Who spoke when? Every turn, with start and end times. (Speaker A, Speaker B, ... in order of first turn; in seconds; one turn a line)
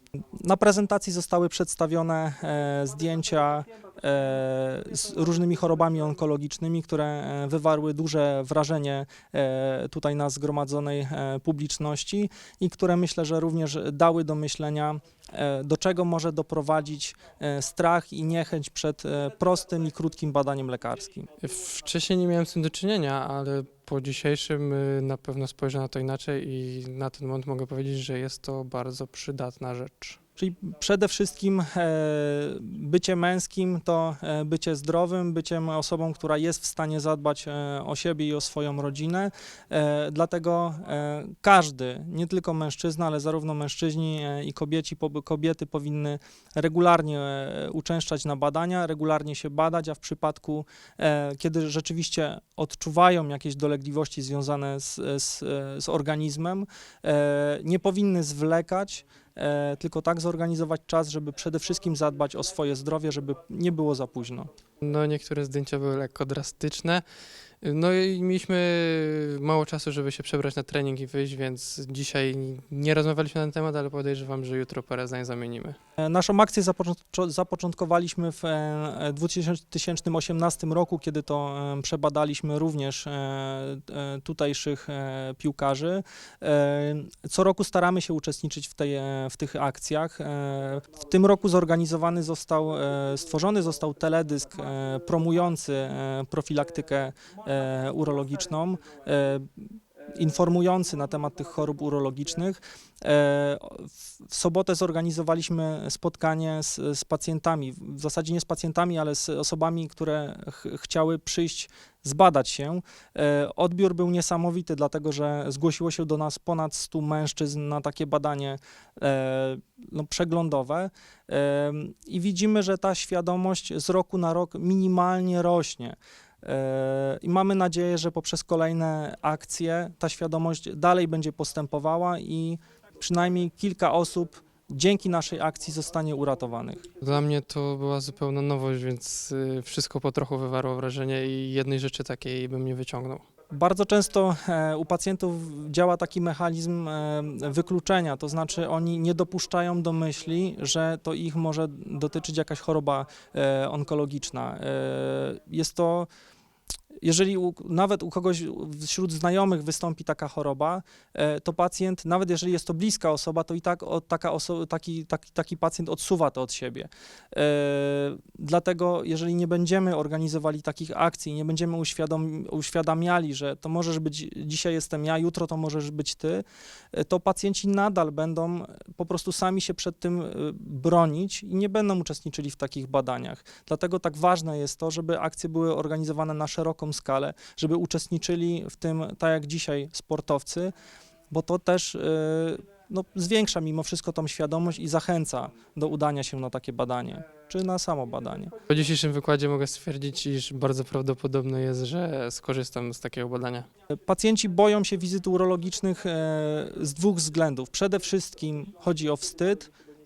Speaker A: 0.3-21.3
Speaker B: 21.4-30.2
Speaker A: 30.4-64.5
Speaker B: 64.8-67.0
Speaker B: 67.6-75.8
Speaker A: 76.0-136.9
Speaker B: 137.0-143.2
Speaker A: 143.5-156.1
Speaker A: 157.0-190.7
Speaker A: 191.3-198.6
Speaker B: 198.7-203.7
Speaker A: 203.9-209.7